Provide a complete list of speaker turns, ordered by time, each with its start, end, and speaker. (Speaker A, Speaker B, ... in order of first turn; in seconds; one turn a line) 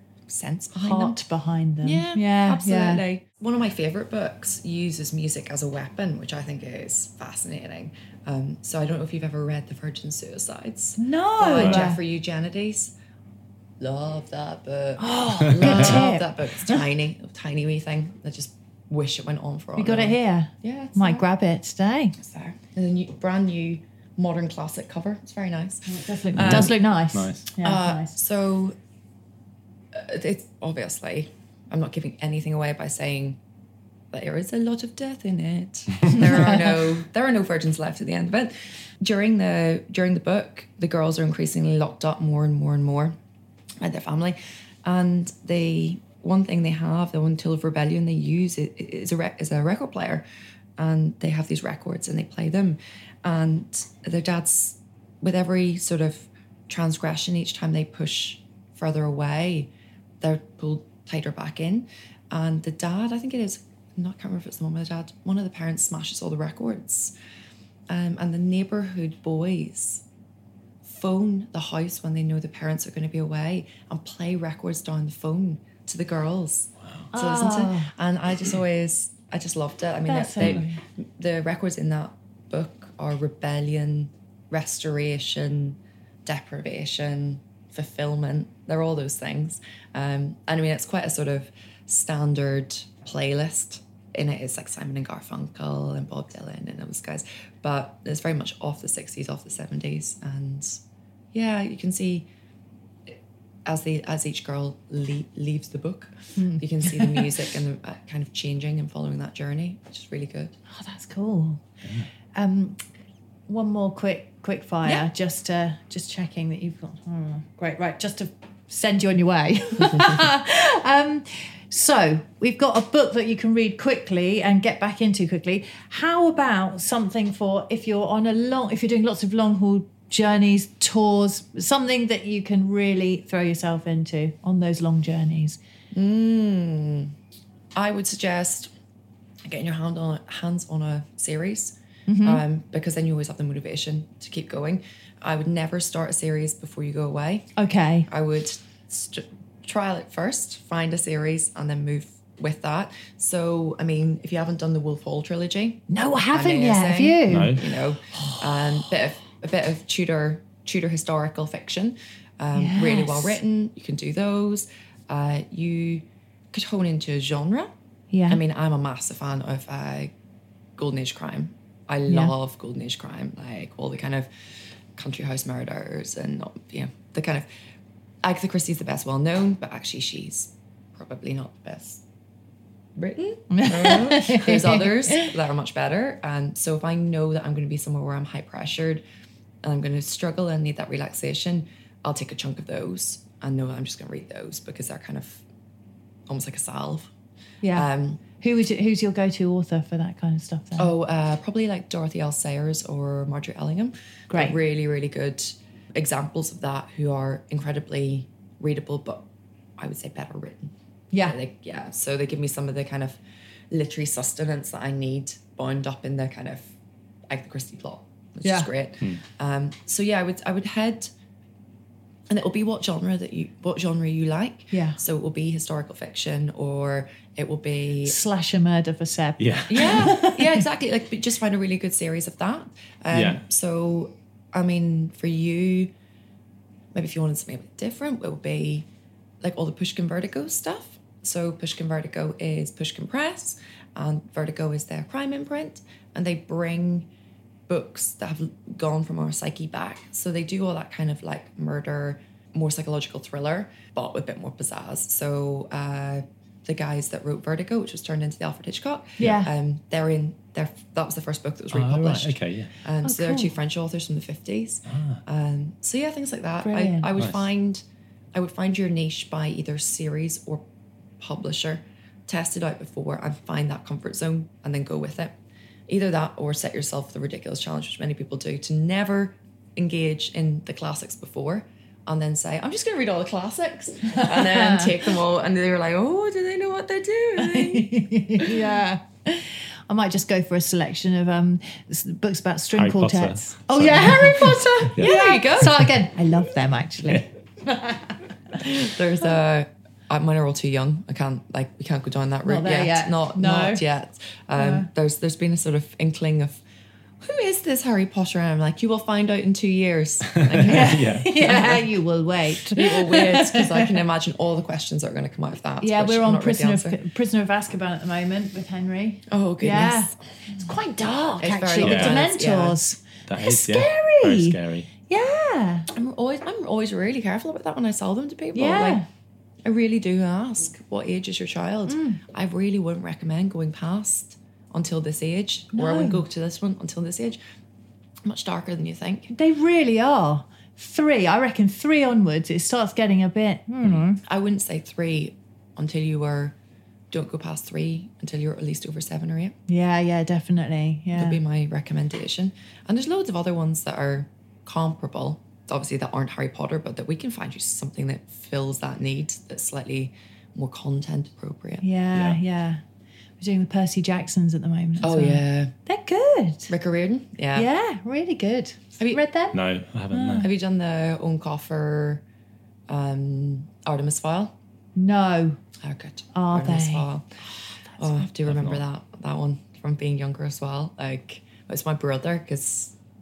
Speaker A: 0.3-1.2
Speaker B: 0.8-3.0
Speaker A: 1.8-12.9
Speaker B: 11.0-12.0
Speaker C: 11.6-11.9
Speaker A: 13.8-21.2
Speaker B: 15.0-16.8
Speaker C: 15.5-16.0
Speaker B: 19.8-22.1
Speaker A: 22.2-26.7
Speaker B: 25.9-28.1
Speaker C: 26.4-27.5
Speaker A: 27.6-28.8
Speaker A: 29.9-33.4
Speaker A: 34.1-43.2
Speaker B: 36.1-36.8
Speaker A: 43.8-50.2
Speaker A: 50.8-59.7
Speaker A: 60.2-67.1
Speaker A: 67.9-70.0
Speaker A: 70.8-100.8
Speaker C: 76.8-77.1
Speaker B: 77.1-77.9
Speaker B: 80.1-80.8
Speaker A: 101.3-102.3
Speaker A: 103.7-110.5
Speaker B: 106.4-107.3
Speaker B: 110.8-111.6
Speaker C: 111.8-112.1
Speaker B: 112.4-112.8
Speaker B: 113.5-135.6
Speaker A: 135.9-137.1
Speaker A: 137.8-138.7
Speaker A: 139.5-147.5
Speaker B: 142.1-142.4
Speaker B: 147.6-148.1
Speaker A: 148.1-167.7
Speaker B: 155.9-157.6
Speaker C: 157.3-157.6
Speaker B: 162.6-163.4
Speaker B: 168.1-168.4
Speaker A: 168.3-170.1
Speaker A: 170.8-174.3
Speaker B: 172.1-172.3
Speaker A: 175.0-177.5
Speaker A: 178.2-182.0
Speaker A: 183.0-189.0
Speaker B: 183.5-185.3
Speaker A: 189.6-195.4
Speaker A: 196.3-197.1
Speaker B: 197.6-200.9
Speaker A: 197.7-198.2
Speaker A: 200.8-209.2
Speaker B: 204.3-204.6
Speaker A: 209.8-210.7
Speaker A: 211.2-213.2
Speaker A: 213.7-216.7
Speaker A: 217.3-221.1
Speaker B: 218.4-218.7
Speaker A: 222.3-228.2
Speaker B: 224.7-225.0
Speaker B: 228.0-230.6
Speaker C: 229.4-230.0
Speaker A: 229.7-235.9
Speaker C: 233.1-233.4
Speaker A: 236.9-238.9
Speaker A: 239.4-247.1
Speaker A: 247.7-267.8
Speaker B: 259.2-259.5
Speaker C: 261.7-262.7
Speaker B: 263.0-263.5
Speaker C: 264.9-265.2
Speaker B: 266.6-267.1
Speaker C: 267.2-267.4
Speaker A: 268.3-270.6
Speaker A: 271.2-275.4
Speaker A: 275.9-287.9
Speaker B: 284.2-284.9
Speaker B: 287.4-298.8
Speaker C: 292.8-295.9
Speaker A: 295.0-295.8
Speaker A: 298.6-306.6
Speaker B: 302.5-303.8
Speaker B: 304.6-304.9
Speaker A: 307.2-311.8
Speaker C: 310.5-311.7
Speaker B: 310.6-314.0
Speaker A: 312.7-317.0
Speaker B: 315.8-325.9
Speaker A: 319.3-320.2
Speaker A: 321.4-322.8
Speaker C: 321.8-322.2
Speaker C: 323.3-324.9
Speaker A: 325.9-329.0
Speaker B: 328.5-329.1
Speaker A: 329.6-337.4
Speaker B: 331.9-332.2
Speaker B: 335.7-336.2
Speaker A: 338.2-339.3
Speaker B: 339.3-344.2
Speaker A: 344.2-346.6
Speaker A: 347.1-349.6
Speaker B: 349.7-351.4
Speaker A: 351.1-361.9
Speaker B: 361.8-362.8
Speaker C: 362.1-362.4
Speaker B: 363.4-366.7
Speaker A: 365.0-365.8
Speaker A: 366.7-367.7
Speaker B: 367.6-369.6
Speaker C: 369.5-370.5
Speaker B: 370.1-370.4
Speaker A: 370.4-372.2
Speaker A: 372.9-374.6
Speaker B: 375.0-375.6
Speaker A: 375.8-377.3
Speaker B: 376.3-377.1
Speaker B: 378.0-378.3
Speaker A: 378.0-382.9
Speaker C: 378.5-378.9